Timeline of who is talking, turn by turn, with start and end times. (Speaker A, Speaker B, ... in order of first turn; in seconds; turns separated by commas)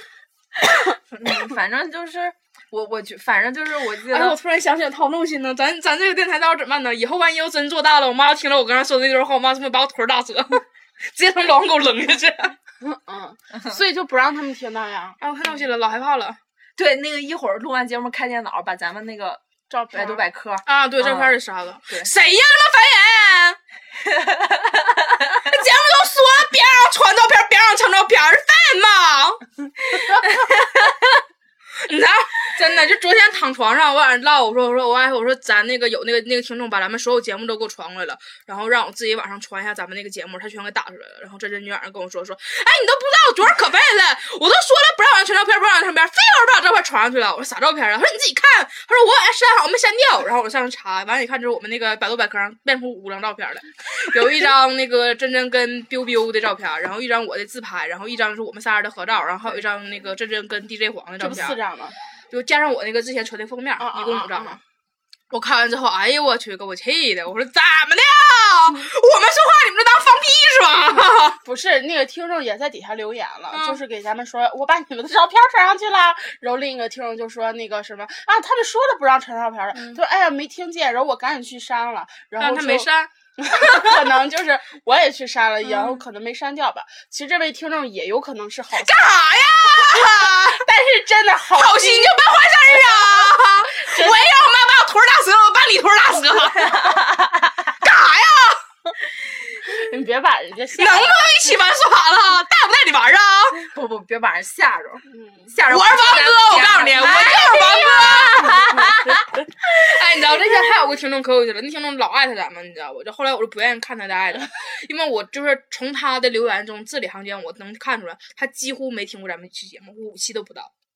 Speaker A: 0.6-4.4, Speaker B: 4.1-12.5, Speaker C: 12.8-15.2, Speaker B: 15.2-16.4, Speaker A: 16.8-21.3, Speaker C: 19.7-20.2, Speaker B: 20.6-23.6, Speaker A: 24.2-24.8, Speaker B: 25.4-30.9, Speaker B: 31.8-61.6, Speaker C: 61.2-62.0, Speaker B: 62.3-64.6, Speaker C: 63.8-64.6, Speaker B: 65.3-71.4, Speaker C: 71.4-89.1, Speaker B: 73.5-73.8, Speaker B: 79.7-80.0, Speaker B: 82.4-84.2, Speaker B: 85.6-86.0, Speaker B: 88.8-90.6, Speaker C: 89.7-93.3, Speaker B: 91.5-97.0, Speaker C: 93.8-94.3, Speaker A: 96.6-97.6, Speaker B: 97.7-98.6, Speaker C: 99.6-101.2, Speaker B: 100.8-103.6, Speaker A: 103.6-109.2, Speaker C: 105.1-105.5, Speaker B: 105.7-120.7